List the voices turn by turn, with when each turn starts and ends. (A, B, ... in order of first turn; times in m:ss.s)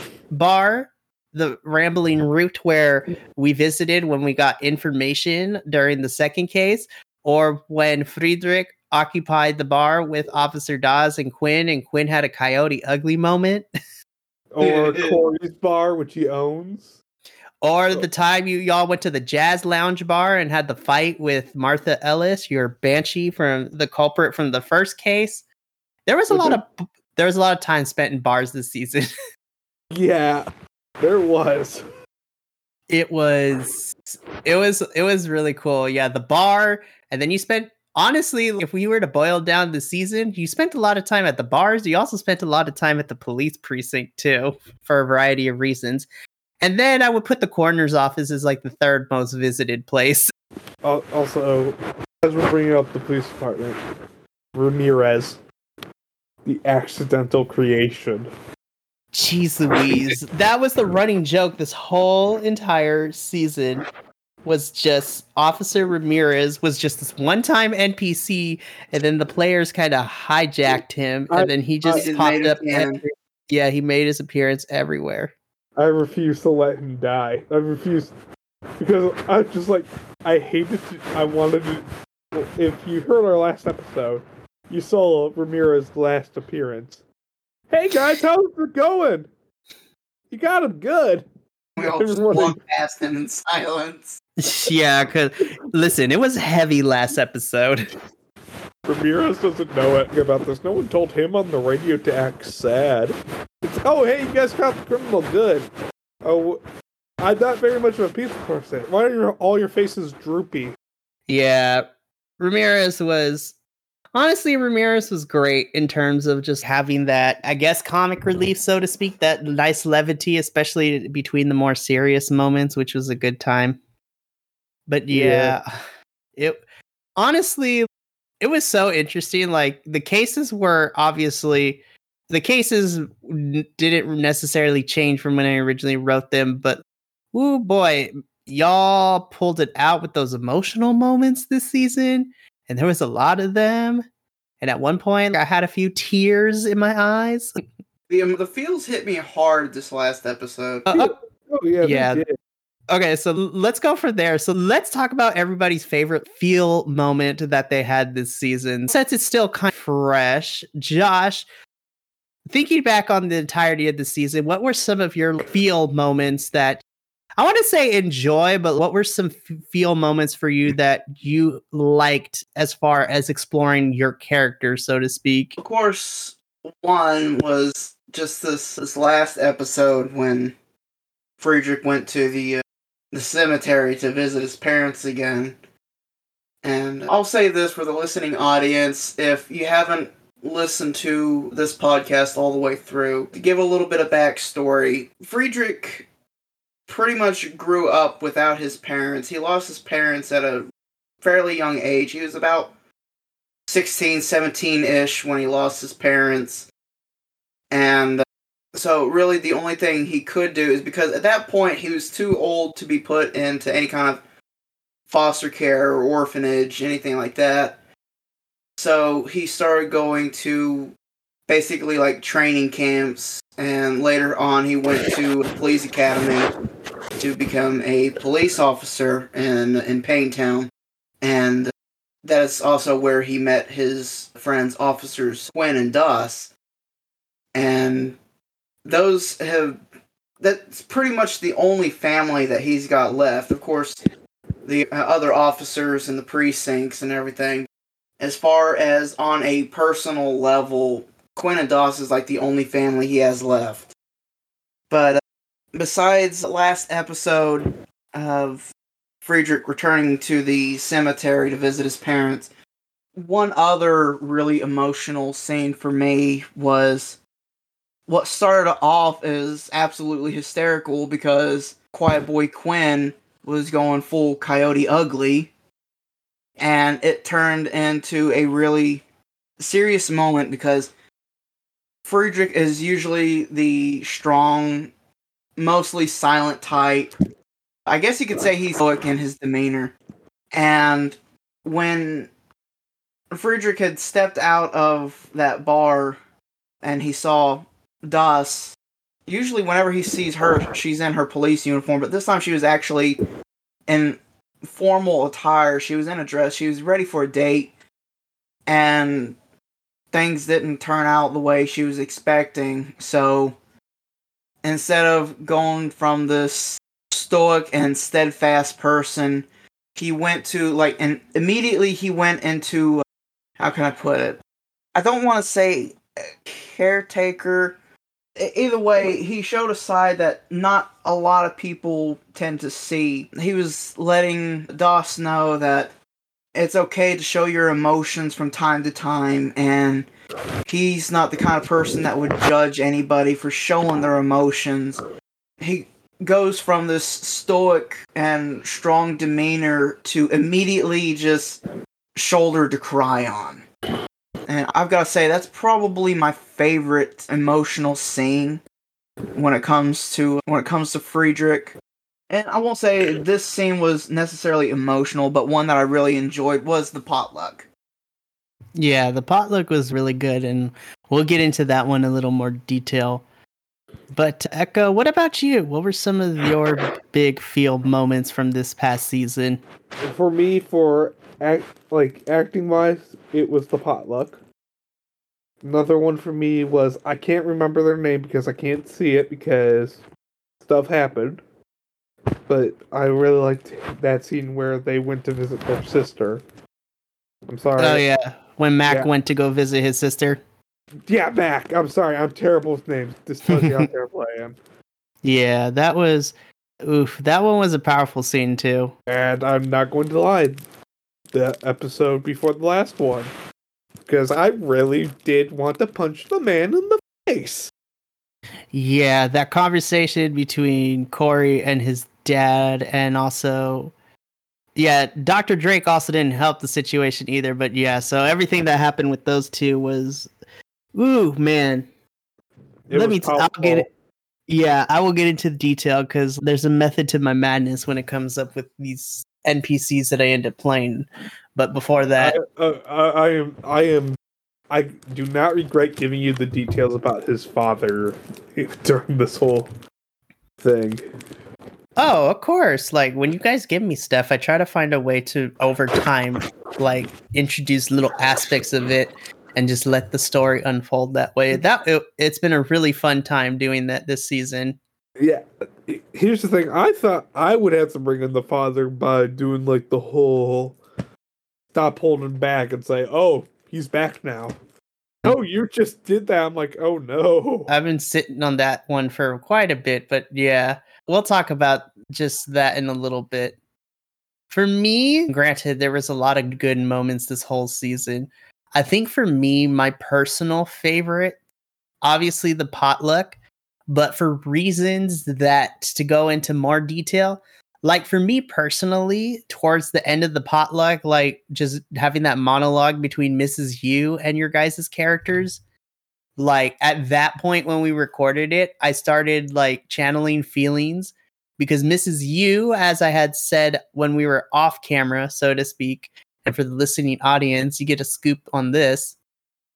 0:00.3-0:13.6 A
0:14.5-0:17.0 B
0:14.6-0:15.2 C
0:17.6-0:25.4 A
0:26.1-0:29.1 A
0:26.3-0:26.6 B
0:29.9-0:30.5 B
0:31.0-0:31.8 B
0:32.9-0:46.1 A
0:46.6-0:50.3 A
0:50.8-0:53.8 B
0:54.6-0:55.4 B
0:56.4-0:58.3 B
0:59.1-1:03.9 A
1:04.4-1:15.3 A
1:11.3-1:12.1 B
1:11.9-1:13.0 C
1:15.8-1:18.1 B
1:18.8-1:27.0 B
1:27.7-1:29.3 B
1:30.3-1:31.3 B
1:31.8-1:32.6 B
1:31.8-1:34.2 C
1:34.4-1:37.9 A
1:38.9-1:45.7 B
1:46.2-1:46.6 B
1:47.2-1:50.8 B
1:51.3-1:53.6 A
1:54.2-2:03.8 A
2:04.9-2:05.8 A
2:05.1-2:05.6 B
2:06.4-2:06.6 A
2:07.2-2:07.9 A
2:08.4-2:16.8 A
2:17.3-2:24.0 A
2:24.6-2:27.5 A
2:28.1-2:30.9 C
2:30.9-2:31.1 A
2:30.9-2:32.3 B
2:31.8-2:32.2 A
2:32.9-2:41.5 A
2:42.5-2:46.8 A
2:47.4-2:55.6 A
2:55.6-3:00.6 C
3:01.4-3:05.6 C
3:06.6-3:16.1 C
3:16.9-3:20.7 C
3:21.2-3:22.7 C
3:23.7-3:26.7 C
3:27.7-3:34.2 C
3:35.1-3:37.8 C
3:38.8-3:40.9 C
3:41.5-3:46.5 C
3:47.2-3:50.7 C
3:51.2-3:51.7 C
3:52.2-3:56.5 C
3:57.5-3:58.2 C
3:58.8-3:59.8 C
4:00.4-4:04.1 C
4:04.6-4:07.7 C
4:08.2-4:13.9 C
4:14.9-4:15.2 C
4:15.7-4:18.7 C
4:19.2-4:22.5 C
4:23.2-4:27.2 C
4:28.1-4:35.5 C
4:36.6-4:39.0 C
4:39.6-4:40.9 C
4:42.0-4:44.9 C
4:45.6-4:47.1 C
4:47.9-4:49.9 C
4:50.5-4:52.3 C
4:53.3-4:56.2 C
4:56.8-4:58.8 C
4:59.3-5:03.2 C
5:03.9-5:07.7 C
5:08.7-5:09.4 C
5:10.1-5:13.6 C
5:14.6-5:23.0 C
5:23.6-5:24.4 C
5:25.0-5:27.8 C
5:28.4-5:35.9 C
5:36.6-5:40.1 C
5:40.7-5:45.0 C
5:45.6-5:51.6 C
5:52.2-5:53.6 C
5:54.5-5:58.6 C
5:59.4-6:01.8 C
6:02.3-6:07.7 C
6:08.8-6:13.2 A
6:14.1-6:19.6 A
6:20.0-6:24.4 B
6:25.6-6:30.0 B
6:30.6-6:31.4 B
6:32.5-6:36.4 B
6:37.5-6:38.0 B
6:37.8-6:40.4 A
6:41.1-6:44.6 B
6:43.5-6:43.9 A
6:45.2-6:48.9 A
6:49.1-6:50.6 B
6:51.3-6:53.3 B
6:54.1-6:57.7 B
6:58.7-7:03.9 A
7:04.8-7:10.3 A
7:11.0-7:11.9 A
7:12.9-7:13.9 B
7:12.9-7:13.9 A
7:14.5-7:22.4 A
7:22.2-7:24.2 B
7:24.7-7:29.7 B
7:30.6-7:31.0 B
7:32.0-7:44.8 A
7:45.2-7:50.8 B
7:51.7-7:54.6 B
7:55.2-7:57.7 B
7:57.7-8:03.6 A
8:04.5-8:11.4 A
8:12.0-8:13.4 A
8:13.9-8:25.6 A
8:26.4-8:39.2 A